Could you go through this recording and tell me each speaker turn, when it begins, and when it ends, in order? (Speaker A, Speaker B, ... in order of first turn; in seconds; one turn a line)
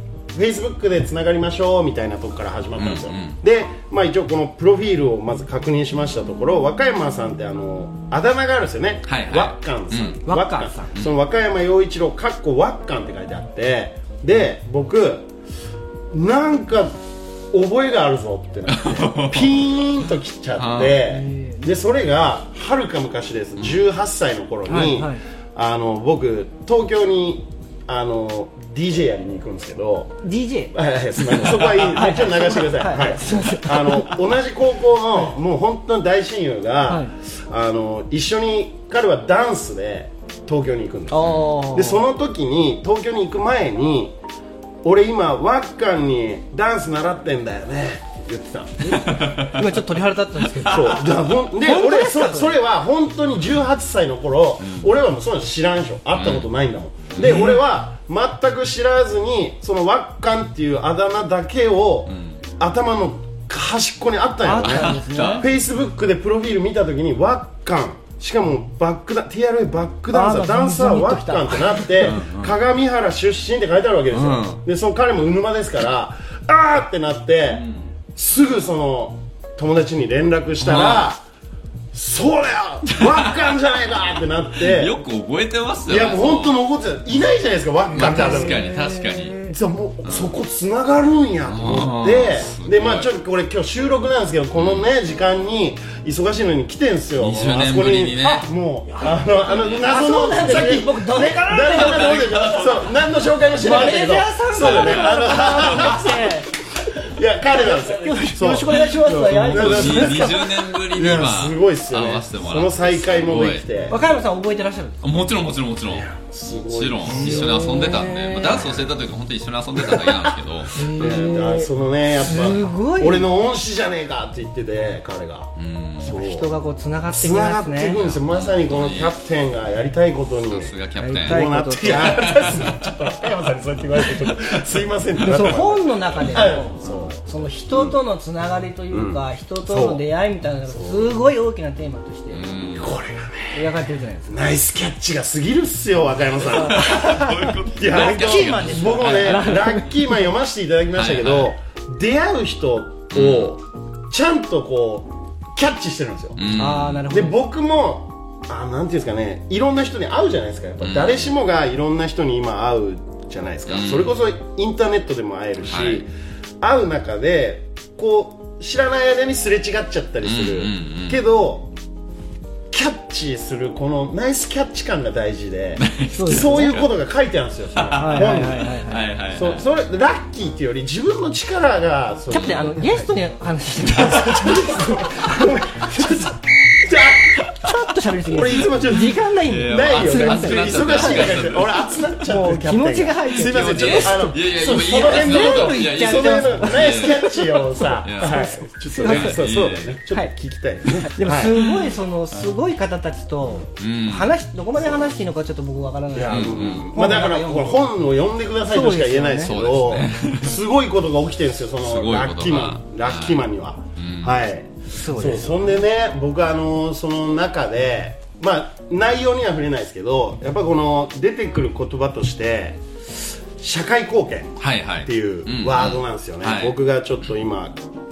Speaker A: 0.3-15.3
Speaker B: 2.8-3.4
Speaker B: 9.1-10.2
Speaker C: 10.2-10.9
Speaker A: 16.1-16.9
Speaker A: 17.5-30.2
Speaker B: 18.7-19.7
Speaker B: 20.6-21.0
Speaker C: 21.0-21.6
Speaker B: 23.6-23.8
Speaker C: 24.7-25.2
Speaker C: 30.2-34.2
Speaker A: 30.7-44.2
Speaker C: 41.1-42.0
Speaker B: 41.2-41.5
Speaker A: 44.8-48.9
Speaker C: 48.8-52.6
Speaker B: 48.8-50.9
Speaker A: 50.6-81.2
Speaker B: 54.6-54.9
Speaker B: 56.1-56.5
Speaker B: 57.1-57.6
Speaker B: 62.1-62.4
Speaker C: 64.4-65.5
Speaker B: 64.6-65.5
Speaker C: 70.1-72.2
Speaker B: 72.0-72.5
Speaker B: 74.1-74.6
Speaker B: 77.6-77.8
Speaker B: 80.6-81.1
Speaker A: 81.9-84.9
Speaker B: 82.9-83.6
Speaker B: 84.5-86.6
Speaker A: 85.9-88.7
Speaker B: 87.9-89.5
Speaker C: 88.0-89.5
Speaker A: 89.4-114.0
Speaker B: 90.0-90.3
Speaker B: 91.5-93.1
Speaker B: 94.5-94.9
Speaker B: 97.2-98.5
Speaker B: 99.5-99.8
Speaker C: 99.8-102.7
Speaker B: 101.7-102.9
Speaker C: 103.6-106.5
Speaker B: 104.5-106.0
Speaker C: 107.5-110.4
Speaker B: 109.5-113.7
Speaker C: 113.9-115.1
Speaker B: 115.0-120.8
Speaker A: 115.9-117.7
Speaker C: 117.1-118.7
Speaker C: 120.7-123.3
Speaker A: 120.7-125.5
Speaker B: 125.5-126.1
Speaker A: 126.0-126.5
Speaker C: 126.0-128.0
Speaker A: 127.1-138.0
Speaker B: 128.0-129.1
Speaker B: 130.5-132.9
Speaker C: 131.0-132.3
Speaker C: 135.2-142.4
Speaker A: 138.9-140.0
Speaker A: 140.7-141.1
Speaker B: 142.3-143.0
Speaker A: 142.8-143.6
Speaker C: 143.5-144.4
Speaker A: 144.3-166.1
Speaker B: 146.4-149.7
Speaker C: 146.6-150.1
Speaker B: 150.9-151.5
Speaker B: 153.1-153.5
Speaker B: 156.3-157.1
Speaker C: 156.5-157.3
Speaker B: 160.8-161.3
Speaker B: 163.7-164.2
Speaker B: 165.6-166.0
Speaker A: 166.6-171.7
Speaker B: 170.2-171.2
Speaker A: 172.7-178.7
Speaker B: 175.8-176.9
Speaker C: 176.2-176.8
Speaker B: 177.7-179.7
Speaker C: 178.0-179.1
Speaker A: 179.3-183.1
Speaker C: 182.3-186.3
Speaker B: 182.3-182.7
Speaker A: 183.9-187.7
Speaker C: 187.6-191.4
Speaker A: 188.2-201.6
Speaker B: 189.4-191.9
Speaker C: 192.2-199.4
Speaker B: 193.3-197.3
Speaker B: 198.0-198.4
Speaker B: 199.0-200.0
Speaker C: 201.0-207.9
Speaker B: 203.8-204.3
Speaker A: 206.1-222.8
Speaker B: 206.3-206.9
Speaker C: 208.7-209.5
Speaker B: 209.4-210.6
Speaker B: 211.8-214.4
Speaker C: 215.0-215.8
Speaker A: 223.6-227.8
Speaker B: 224.6-226.7